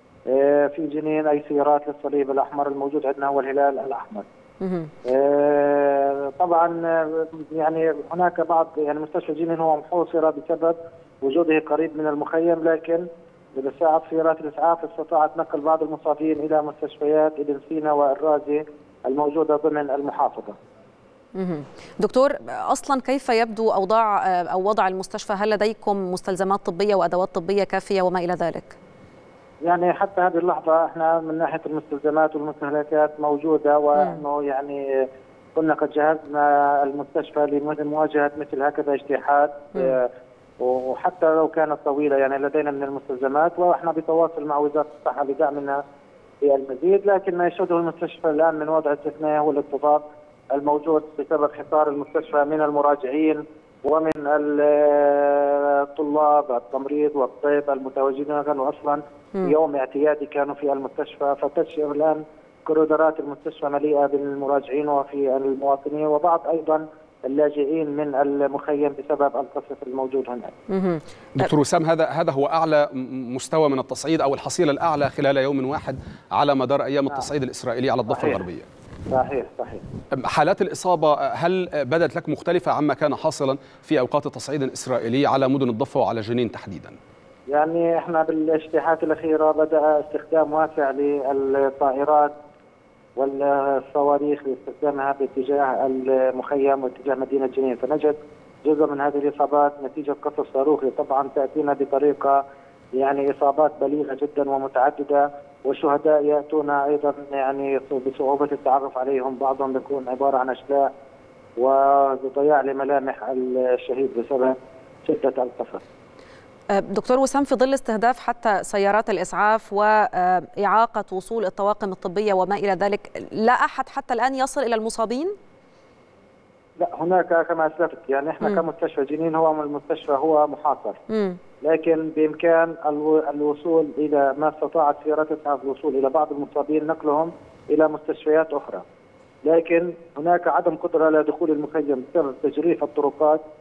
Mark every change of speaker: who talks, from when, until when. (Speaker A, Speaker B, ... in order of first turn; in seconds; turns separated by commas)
Speaker A: 0.3-4.3, Speaker B: 4.6-4.9, Speaker A: 5.1-20.6, Speaker B: 21.4-28.8, Speaker A: 29.6-34.8, Speaker A: 35.6-40.1, Speaker A: 40.6-45.8, Speaker A: 46.4-70.6, Speaker B: 70.7-71.5, Speaker C: 71.4-78.7, Speaker A: 78.1-78.4, Speaker A: 79.1-79.8, Speaker C: 80.2-87.0, Speaker A: 87.5-92.3, Speaker A: 93.2-102.4, Speaker A: 103.0-110.9, Speaker A: 111.6-115.8, Speaker B: 116.7-125.3, Speaker A: 126.8-131.0, Speaker B: 131.1-131.4, Speaker A: 131.6-138.8, Speaker A: 139.4-143.4